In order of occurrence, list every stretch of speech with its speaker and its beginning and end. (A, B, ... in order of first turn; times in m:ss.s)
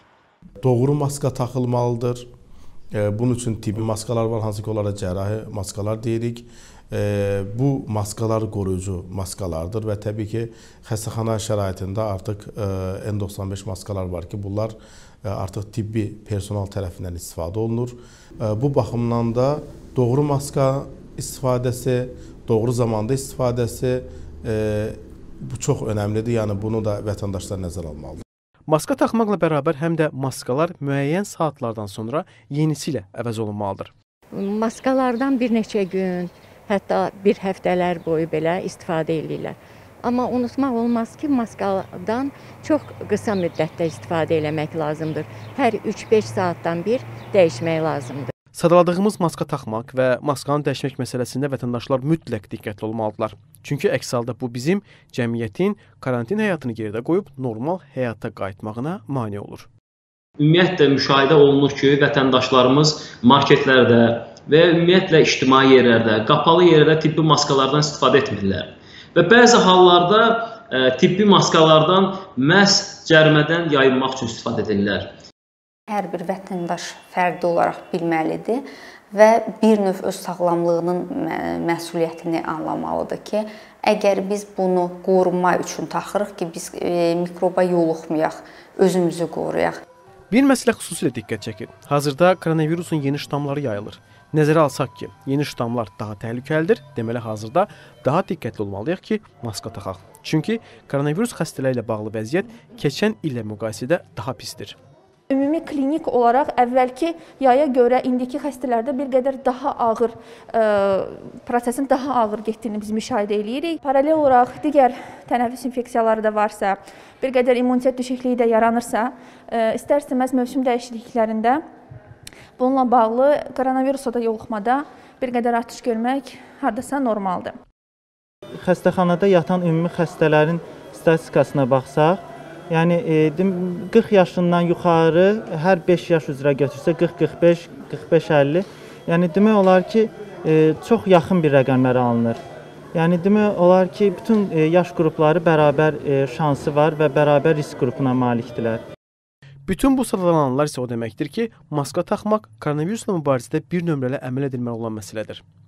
0:00.6-0:02.2 A
0:02.9-0:28.2 A
0:28.7-0:33.9 B
0:34.3-0:48.3 C
0:48.5-0:59.7 B
1:00.4-1:15.1 D
1:15.9-1:29.8 E
1:30.3-1:44.8 B
1:45.3-2:01.6 F
2:02.6-2:07.6 F
2:08.6-2:22.4 G
2:22.9-2:28.8 G
2:29.6-2:35.4 B